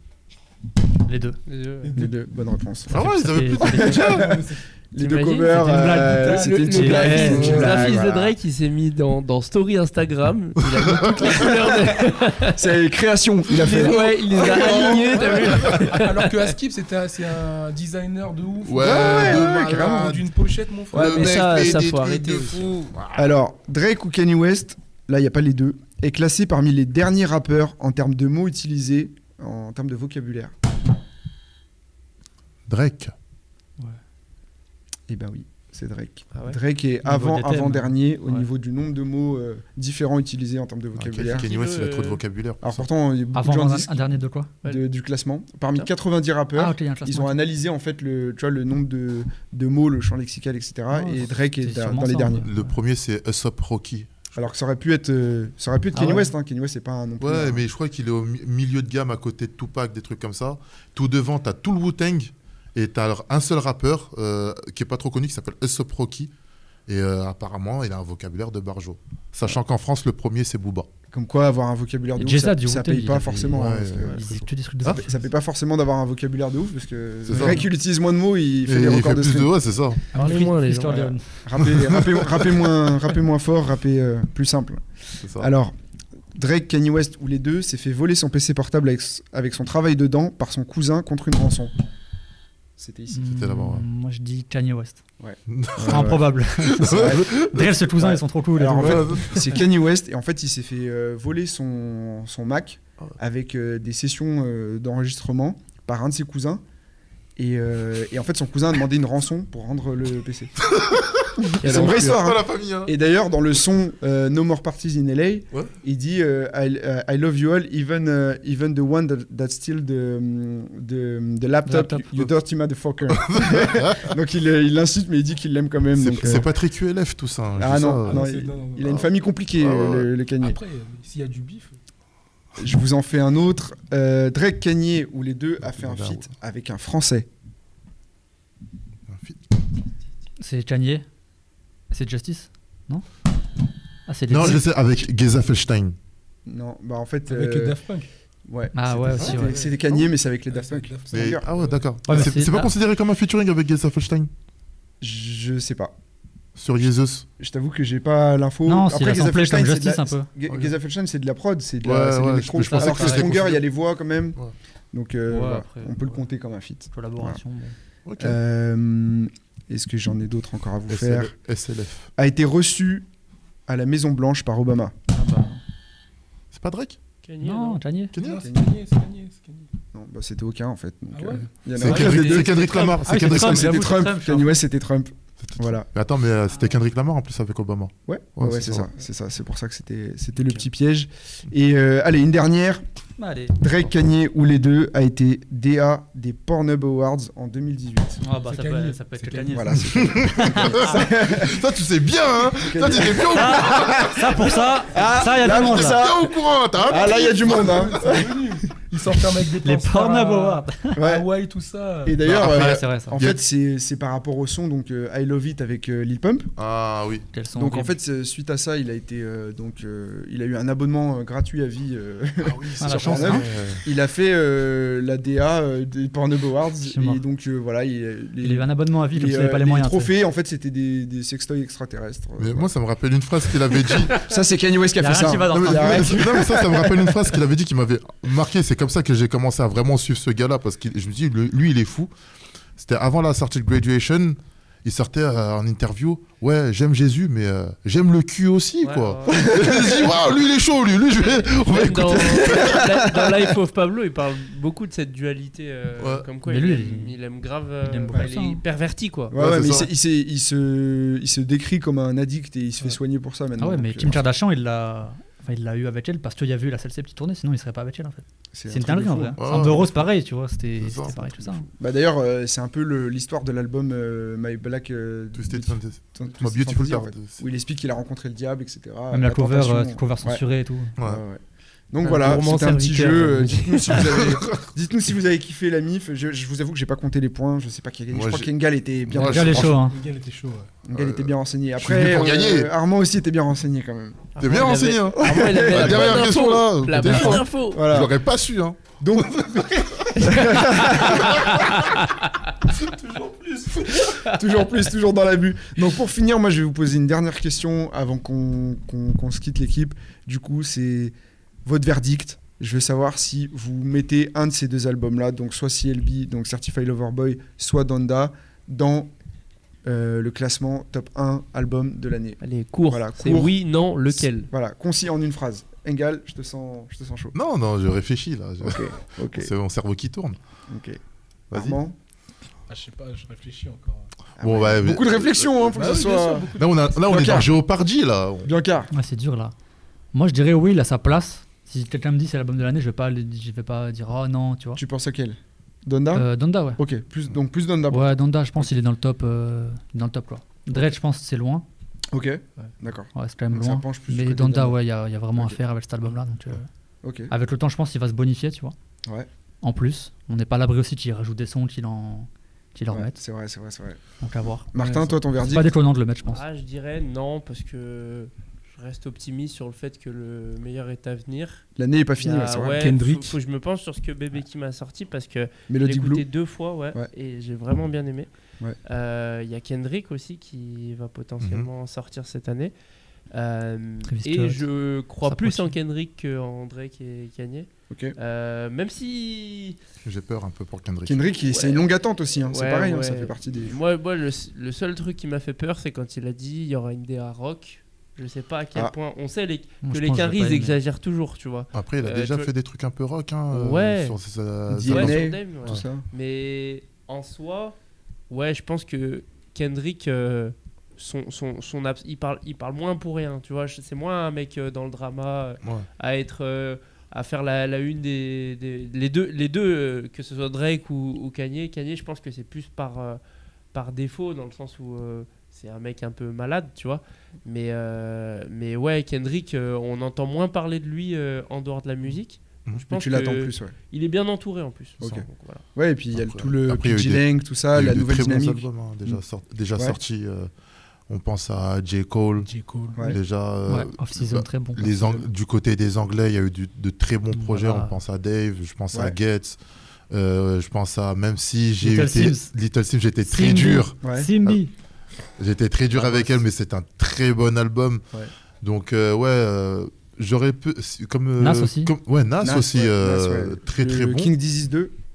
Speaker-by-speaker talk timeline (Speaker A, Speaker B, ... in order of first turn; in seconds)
Speaker A: 1.1-1.4, 2.9-4.1, 5.5-7.6, 37.0-38.4, 43.3-44.5, 46.6-47.4, 50.9-52.8, 55.9-56.3, 72.2-75.2, 80.1-81.7, 93.1-95.0, 95.8-99.4, 121.7-122.0, 140.4-141.1, 141.9-143.1, 144.1-144.6, 148.7-149.6, 152.1-152.7, 158.7-160.3, 162.7-163.3, 165.3-166.2, 166.9-167.7, 175.1-175.6, 177.4-178.1, 182.7-184.6, 193.2-193.6, 198.2-201.0, 203.3-206.1, 209.6-211.0, 212.3-213.2, 217.3-218.0, 222.8-223.5, 226.8-227.2, 228.4-230.1, 235.0-236.3, 256.4-257.1, 257.8-258.6, 263.6-271.7, 279.1-280.9, 282.2-283.4, 289.1-290.0, 338.9-339.5, 340.1-344.8, 346.1-346.8, 347.9-351.6, 353.1-356.7, 357.3-358.7, 359.6-363.2, 364.2-364.7, 365.4-366.4, 384.0-384.6, 385.2-385.7, 399.8-400.8, 443.7-444.8, 447.3-448.0, 451.8-452.5, 453.3-454.7, 461.4-461.9
Speaker B: 1.5-1.9, 5.0-12.7, 13.6-16.6, 20.9-22.9, 41.2-42.2, 80.1-81.0, 111.6-112.2, 177.2-177.8, 181.8-182.6, 248.8-249.5, 251.2-259.4, 282.0-284.3, 294.4-297.9, 300.4-302.3, 304.1-304.6, 322.4-324.5, 366.3-371.6, 372.2-378.3, 378.9-382.7, 383.3-389.8, 391.5-391.9, 392.5-402.5, 403.5-404.2, 404.8-407.8, 408.3-423.2, 423.7-435.6
Speaker C: 1.8-2.1, 3.7-4.6, 5.7-7.9, 13.6-21.7, 128.1-129.0, 130.4-131.8, 147.3-148.1, 149.3-152.3, 178.2-179.7, 181.1-181.6, 198.3-199.6, 207.0-212.2, 222.4-223.3, 289.7-290.8, 302.7-303.9, 332.7-334.1, 335.7-337.3, 364.8-365.1, 372.8-373.4, 442.4-443.0
Speaker D: 1.9-3.0, 3.6-8.3, 11.2-12.0, 12.5-15.8, 18.8-20.2, 20.9-21.5, 23.1-30.6, 35.1-41.5, 42.6-52.5, 54.4-57.6, 71.1-79.5, 80.8-85.7, 86.3-91.7, 92.8-93.3, 95.2-96.3, 96.8-106.6, 107.4-110.6, 111.4-126.5, 127.6-130.6, 132.6-137.3, 146.4-147.8, 148.5-151.5, 155.0-155.9, 157.4-164.4, 164.9-167.4, 168.2-171.3, 172.2-173.1, 173.7-174.9, 178.2-178.7, 179.9-185.9, 188.1-192.8, 193.6-198.2, 199.5-201.7, 202.5-208.5, 211.0-211.3, 212.0-216.5, 217.6-232.7, 234.1-237.4, 249.3-250.1, 252.4-253.5, 259.3-264.2, 268.5-269.8, 271.7-280.4, 281.0-289.7, 290.9-296.4, 297.0-298.2, 299.0-301.6, 303.9-319.1, 319.9-323.6, 324.2-327.4, 328.6-329.5, 330.7-331.0, 331.5-331.9, 334.4-336.5, 337.0-337.6, 338.4-338.9, 344.8-348.7, 352.1-354.8, 357.0-357.3, 362.9-364.0, 364.7-365.7, 371.8-372.9, 375.7-376.3, 387.9-388.1, 391.1-393.8, 404.7-406.1, 432.9-433.7, 435.0-439.2, 444.8-445.3, 448.9-449.2, 454.0-454.3, 455.9-456.4, 462.4-464.9
Speaker E: 2.9-4.3, 7.5-7.9, 10.8-11.5, 14.4-15.8, 18.6-20.3, 20.9-23.3, 32.7-33.1, 41.0-42.9, 52.5-54.4, 57.2-66.3, 66.9-70.9, 73.5-75.0, 77.3-77.7, 78.7-80.0, 81.6-82.8, 85.2-85.5, 93.2-93.9, 95.5-97.8, 98.8-99.6, 110.7-112.9, 123.1-124.2, 126.0-128.2, 129.6-130.1, 135.7-136.3, 139.1-139.4, 144.3-145.9, 151.1-154.3, 156.6-157.3, 160.5-160.7, 161.8-163.6, 168.1-168.4, 170.9-172.1, 176.5-177.0, 178.1-178.5, 181.8-183.9, 185.4-188.9, 200.0-204.2, 205.4-208.1, 212.3-213.4, 216.6-217.3, 223.2-223.8, 232.4-234.2, 235.5-242.1, 242.8-252.8, 256.0-256.3, 259.3-259.9, 269.4-270.1, 270.8-271.5, 275.4-277.4, 283.9-284.7, 288.1-288.5, 289.1-289.8, 290.9-292.7, 294.4-300.2, 327.3-330.4, 331.5-331.8, 334.4-336.0, 336.6-338.5, 381.4-381.7, 390.0-391.3, 401.7-405.8, 436.1-440.5, 441.1-442.5, 443.0-449.6, 450.1-454.6, 455.4-458.0, 458.6-464.3